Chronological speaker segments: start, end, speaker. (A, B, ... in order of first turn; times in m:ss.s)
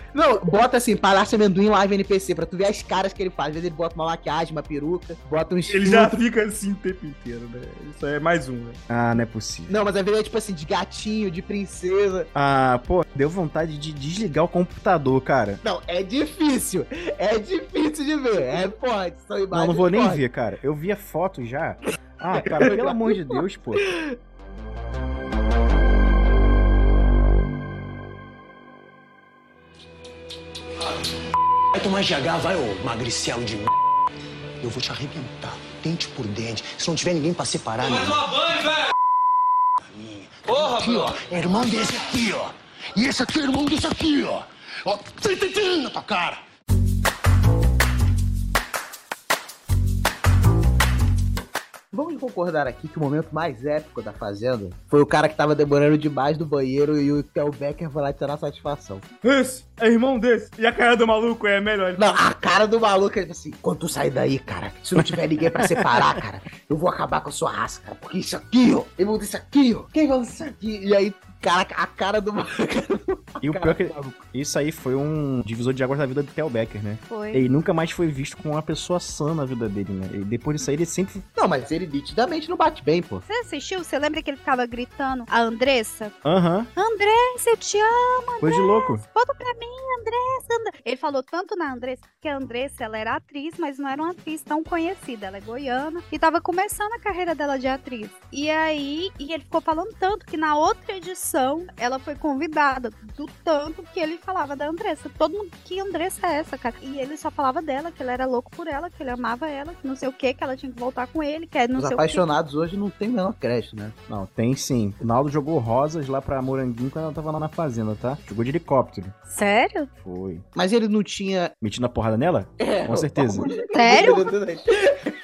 0:00.1-0:06.2 A
0:05.7-0:08.8 B
0:08.9-0:09.8 C
0:09.7-0:12.3 A
0:12.3-0:15.6 C
0:15.6-0:20.2 A
0:19.5-0:23.9 C
0:22.6-0:22.9 A
0:31.7-0:33.7 D
0:34.6-0:38.9 D
0:39.9-0:46.4 D
0:51.9-0:59.0 A
0:59.2-1:02.0 B
1:02.0-1:14.0 A
1:05.0-1:06.2 C
1:13.4-1:21.2 C
1:17.1-1:17.5 E
1:21.4-1:23.2 A
1:23.3-1:26.2 E
1:26.2-1:26.7 C
1:26.8-1:52.2 E
1:28.4-1:29.0 C
1:51.8-1:54.0 A
1:54.1-1:59.2 C
1:59.3-1:59.9 E
2:00.0-2:00.4 C
2:00.6-2:01.5 A
2:01.6-2:03.5 C
2:02.6-2:05.1 A
2:03.7-2:04.2 E